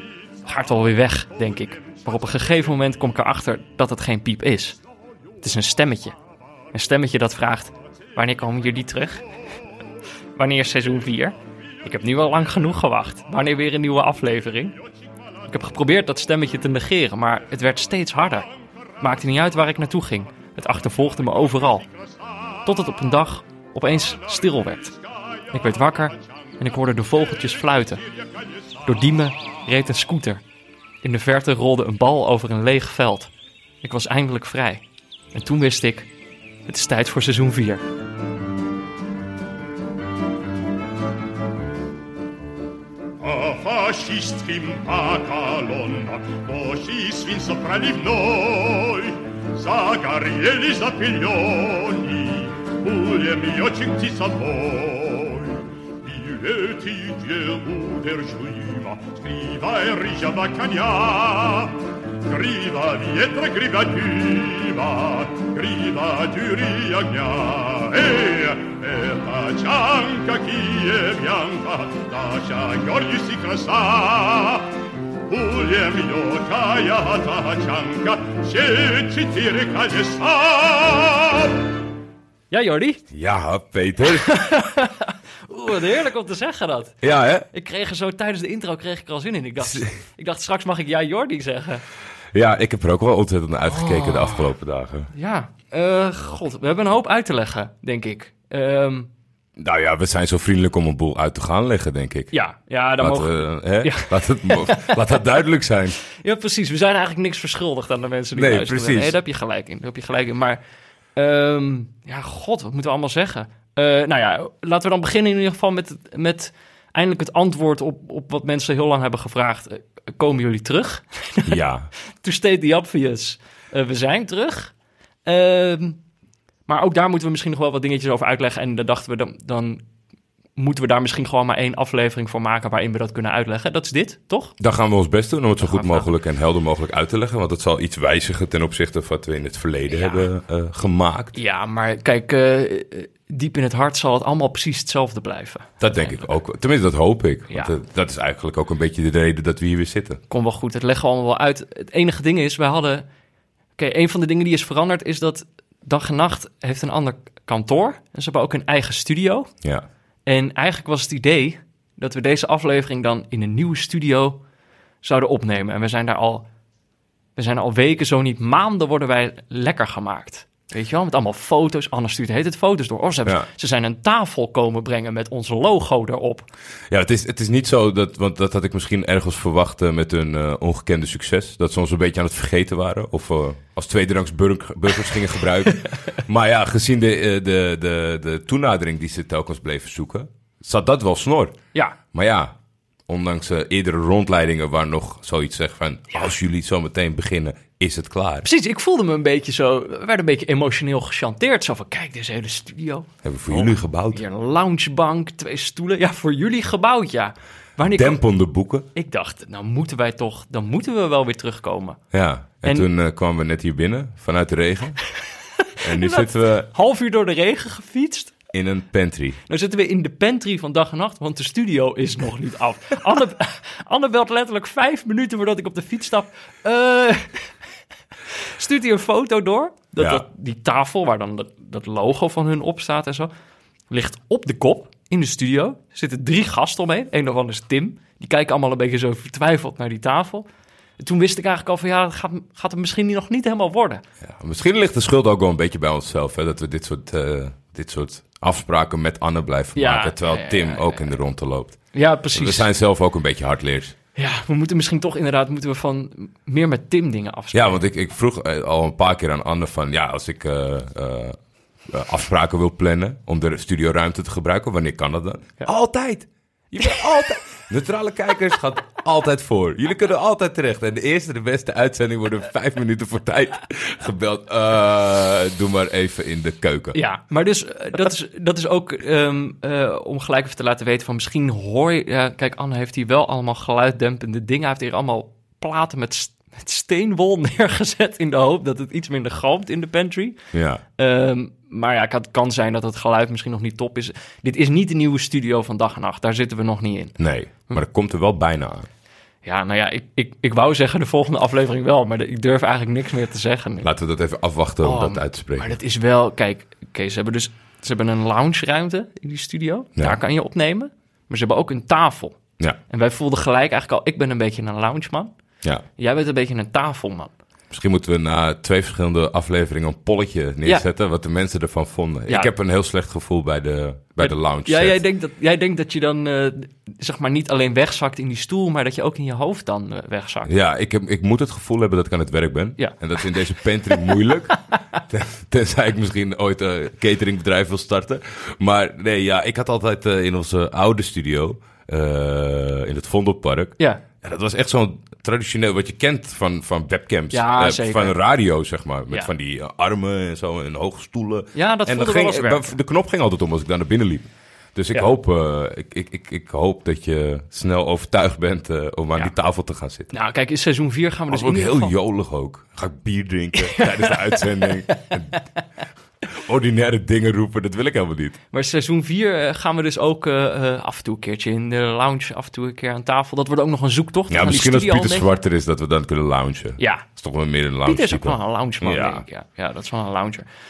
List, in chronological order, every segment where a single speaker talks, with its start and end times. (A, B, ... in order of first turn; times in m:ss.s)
0:00.4-0:04.8 A
0:05.4-0:06.2 A
0:06.7-0:09.2 A
0:10.4-0:14.8 A
0:15.4-0:18.5 A
0:19.0-0:21.8 A
0:22.0-0:22.6 B
0:22.6-0:24.9 A
0:25.2-0:25.5 B
0:25.5-0:28.0 A
0:28.2-0:28.8 B
0:28.8-0:30.4 A
0:31.0-0:36.1 A
0:36.7-0:37.8 A
0:43.2-1:21.6 B
1:22.5-1:23.0 A
1:23.1-1:24.3 C
1:24.0-1:31.8 A
1:27.0-1:27.5 C
1:29.6-1:29.9 C
1:32.3-1:35.1 C
1:33.6-1:34.5 A
1:35.1-1:39.1 A
1:39.6-1:42.3 C
1:42.3-1:45.0 A
1:43.0-1:46.0 C
1:46.2-1:50.6 A
1:48.3-1:49.2 C
1:51.2-2:04.7 A
2:01.4-2:01.9 C
2:05.2-2:06.0 A
2:06.7-2:09.8 A
2:10.6-2:14.5 A
2:14.6-2:21.3 C
2:15.6-2:16.1 A
2:19.9-2:20.3 A
2:21.3-2:26.2 A
2:25.8-2:30.2 C
2:27.5-2:27.7 A
2:30.3-2:33.0 A
2:33.8-2:39.5 A
2:40.2-2:44.4 A
2:45.0-2:46.5 A
2:47.4-2:56.5 A
2:56.9-3:11.5 C
3:12.1-3:12.5 C
3:13.1-3:18.5 C
3:18.4-3:28.2 A
3:23.2-3:24.2 C
3:27.9-3:28.8 C
3:28.9-3:32.0 A
3:32.1-3:35.0 C
3:35.1-3:38.3 A
3:35.8-3:36.7 C
3:38.5-3:39.4 C
3:39.5-3:47.5 A
3:48.3-3:53.3 A
3:53.9-4:00.5 A
4:01.0-4:04.0 A
4:04.2-4:11.8 C
4:09.7-4:11.1 A
4:11.9-4:12.7 A
4:12.3-4:13.9 C
4:14.2-4:17.8 A
4:17.5-4:37.0 C
4:36.9-4:50.4 A
4:50.5-4:50.8 C
4:51.0-4:57.2 A
4:57.2-4:58.9 C
4:59.4-5:03.9 A
5:03.8-5:05.8 C
5:04.8-5:15.3 A
5:16.0-5:17.3 A
5:17.7-5:25.0 C
5:24.2-5:30.5 A
5:30.4-5:34.5 C
5:32.8-5:35.0 A
5:35.1-6:00.1 C
5:47.3-5:48.2 A
5:51.5-5:52.7 A
6:00.1-6:01.9 A
6:01.3-6:05.3 C
6:03.6-6:05.4 A
6:06.3-6:08.4 C
6:08.5-6:15.3 A
6:14.3-6:19.2 C
6:16.8-6:17.0 A
6:17.8-6:20.4 A